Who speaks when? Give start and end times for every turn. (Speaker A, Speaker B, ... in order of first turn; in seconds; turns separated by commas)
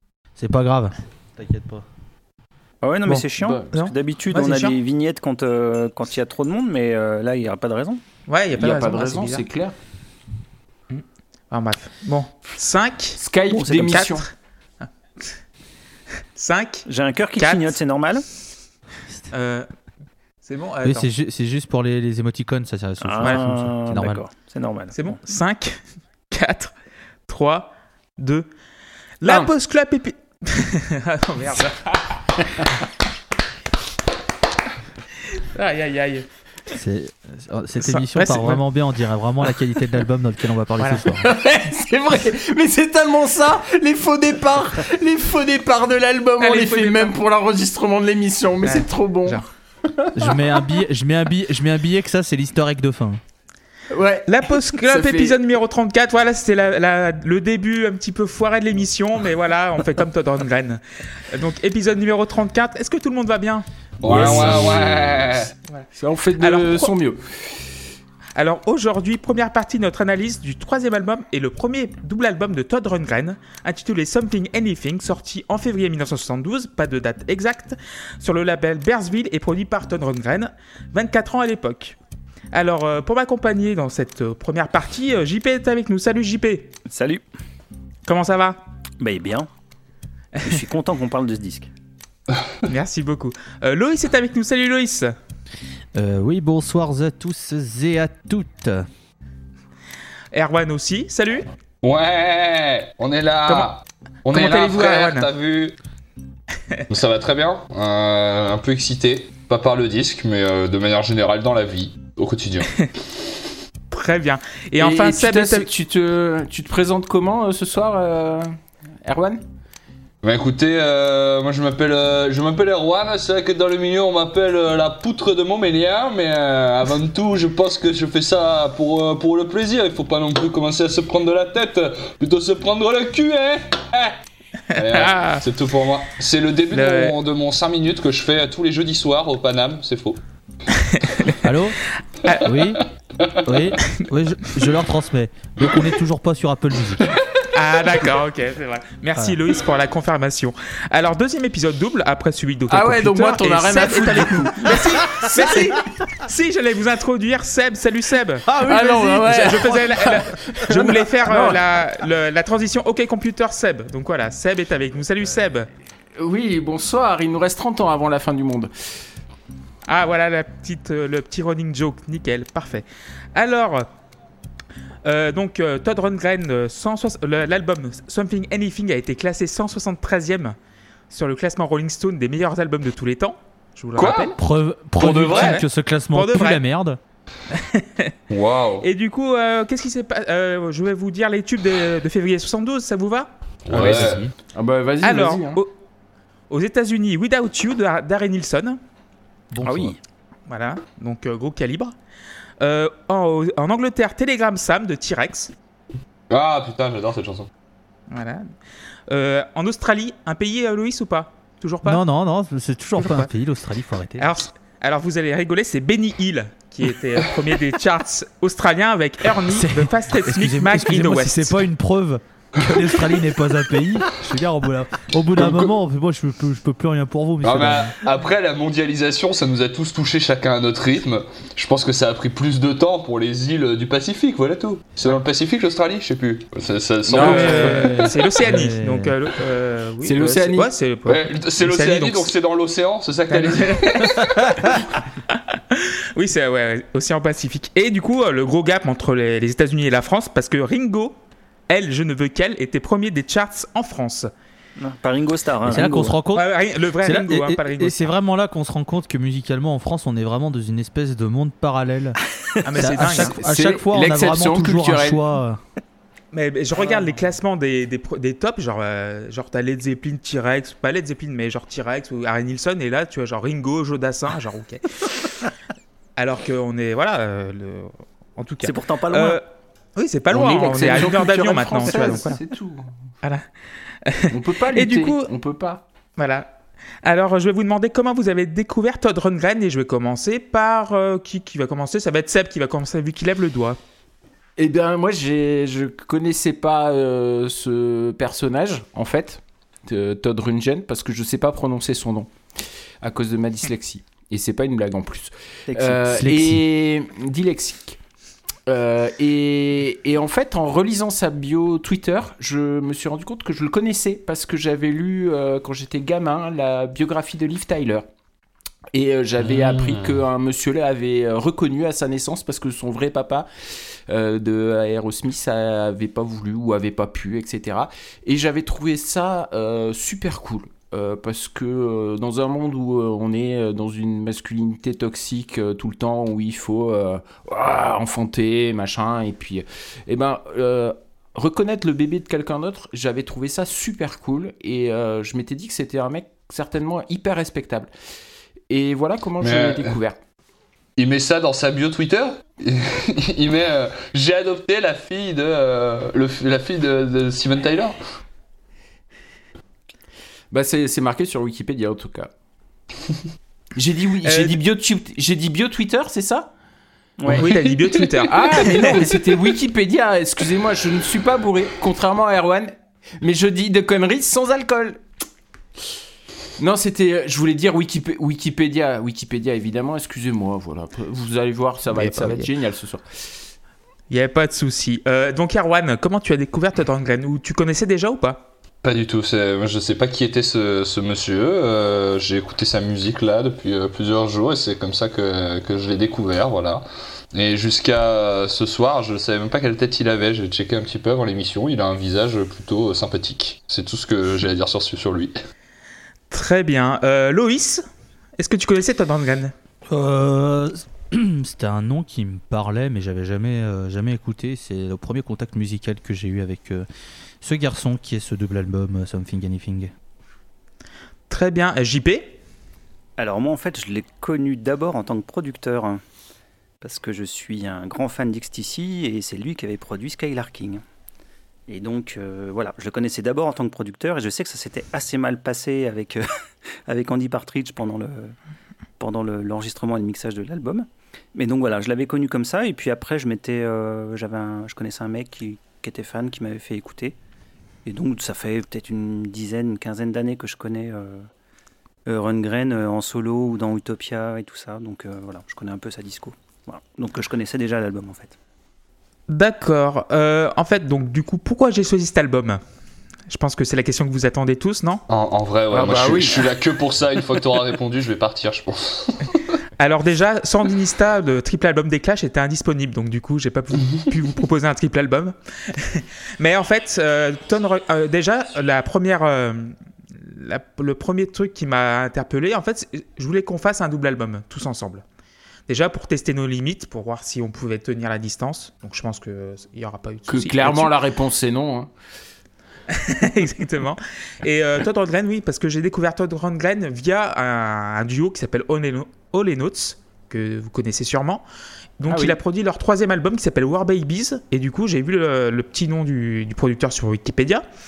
Speaker A: 0.4-1.9, Speaker B: 2.8-8.0, Speaker C: 3.1-4.8, Speaker D: 3.4-3.7, Speaker C: 8.3-9.4, Speaker D: 8.6-9.7, Speaker C: 10.9-13.2, Speaker D: 13.2-14.3, Speaker B: 13.5-14.1, Speaker C: 13.7-14.2, Speaker C: 16.4-16.8, Speaker B: 16.9-18.2, Speaker C: 17.4-17.7, Speaker C: 19.3-19.7, Speaker C: 20.4-21.1, Speaker A: 20.8-24.2, Speaker B: 23.0-25.2, Speaker C: 24.9-25.8, Speaker C: 26.3-26.7, Speaker C: 27.3-28.5, Speaker C: 29.2-32.6, Speaker D: 29.2-29.5, Speaker C: 35.3-36.3, Speaker A: 36.7-41.2, Speaker C: 37.8-38.6, Speaker C: 40.8-41.1, Speaker D: 41.2-50.3, Speaker C: 46.4-47.1, Speaker C: 48.6-49.4, Speaker A: 50.1-53.2, Speaker D: 53.9-55.4, Speaker C: 54.3-63.7, Speaker E: 64.0-65.5, Speaker D: 64.0-67.5, Speaker C: 64.2-64.5, Speaker C: 66.4-66.9, Speaker C: 68.3-82.0, Speaker C: 82.5-86.8, Speaker B: 86.9-87.2, Speaker C: 88.0-88.6, Speaker B: 89.0-89.5, Speaker B: 90.4-91.7, Speaker C: 92.7-95.1, Speaker A: 95.9-98.9, Speaker C: 100.3-101.5, Speaker E: 101.8-105.7, Speaker C: 104.3-105.3, Speaker E: 106.9-112.9, Speaker C: 113.9-115.7, Speaker D: 114.8-119.4, Speaker E: 120.2-134.2, Speaker C: 134.7-135.4, Speaker E: 134.7-140.2, Speaker C: 136.7-137.2, Speaker C: 140.7-141.4, Speaker A: 141.4-141.8, Speaker C: 142.2-142.5, Speaker A: 142.4-142.8, Speaker A: 143.4-147.2, Speaker C: 147.5-158.5, Speaker D: 152.7-155.6, Speaker A: 158.5-159.8, Speaker D: 158.5-161.6, Speaker C: 159.3-165.7, Speaker D: 166.2-169.0, Speaker C: 169.8-173.9, Speaker C: 175.0-180.6, Speaker C: 181.1-184.4, Speaker E: 183.9-184.3, Speaker A: 184.0-187.0, Speaker E: 185.0-185.5, Speaker C: 185.0-186.6, Speaker C: 187.5-188.1, Speaker E: 188.3-188.9, Speaker C: 188.8-194.1, Speaker E: 193.7-194.3, Speaker A: 193.7-194.3, Speaker D: 194.5-195.6, Speaker C: 195.0-195.7, Speaker C: 196.5-198.8, Speaker A: 199.5-200.0, Speaker B: 199.6-199.9, Speaker C: 200.5-201.9, Speaker C: 202.6-205.5, Speaker E: 206.3-207.5, Speaker C: 208.1-208.5, Speaker C: 209.1-212.0, Speaker A: 211.8-214.3, Speaker C: 213.0-213.3, Speaker C: 214.2-221.6, Speaker A: 219.5-227.9, Speaker E: 225.4-225.7, Speaker E: 227.4-238.0, Speaker D: 237.1-238.0, Speaker C: 237.1-242.3, Speaker A: 237.2-239.1, Speaker D: 240.0-240.7, Speaker E: 241.1-244.8, Speaker C: 243.3-244.8, Speaker C: 245.3-254.3, Speaker B: 254.8-256.2, Speaker A: 255.7-262.2, Speaker C: 256.3-258.1, Speaker C: 262.6-263.4, Speaker A: 262.8-265.6, Speaker D: 263.2-265.2, Speaker C: 266.3-275.3, Speaker C: 276.1-279.4, Speaker B: 278.6-279.4, Speaker C: 279.9-282.4, Speaker D: 280.3-282.9, Speaker C: 284.0-285.3, Speaker D: 284.3-285.8, Speaker C: 286.2-286.5, Speaker C: 287.0-293.8, Speaker D: 294.6-302.3, Speaker D: 303.0-308.0, Speaker B: 305.7-306.0, Speaker A: 306.1-306.6, Speaker D: 308.7-318.1, Speaker D: 318.9-347.9, Speaker E: 319.4-320.1, Speaker D: 348.7-350.2, Speaker E: 349.4-349.9, Speaker E: 351.0-358.0, Speaker D: 360.5-362.3, Speaker D: 363.8-366.5, Speaker C: 364.2-364.6, Speaker B: 367.2-368.0, Speaker C: 367.3-369.1, Speaker D: 368.2-375.0, Speaker D: 376.6-383.5, Speaker C: 381.9-382.5, Speaker C: 384.1-388.4, Speaker E: 388.8-405.4, Speaker C: 406.3-407.8, Speaker C: 408.4-409.5, Speaker A: 409.9-416.9, Speaker A: 417.4-419.9, Speaker C: 421.3-422.4, Speaker B: 423.2-426.0, Speaker B: 426.8-430.8, Speaker B: 431.7-436.3, Speaker B: 436.9-438.3, Speaker B: 439.0-447.1, Speaker B: 447.8-451.3, Speaker B: 452.1-458.4, Speaker C: 459.3-462.6, Speaker C: 463.3-465.0, Speaker E: 465.1-469.6, Speaker D: 465.7-466.6, Speaker C: 469.8-485.0, Speaker C: 485.7-490.9, Speaker D: 490.3-491.9, Speaker C: 492.9-501.4, Speaker C: 502.0-507.6, Speaker D: 502.1-502.4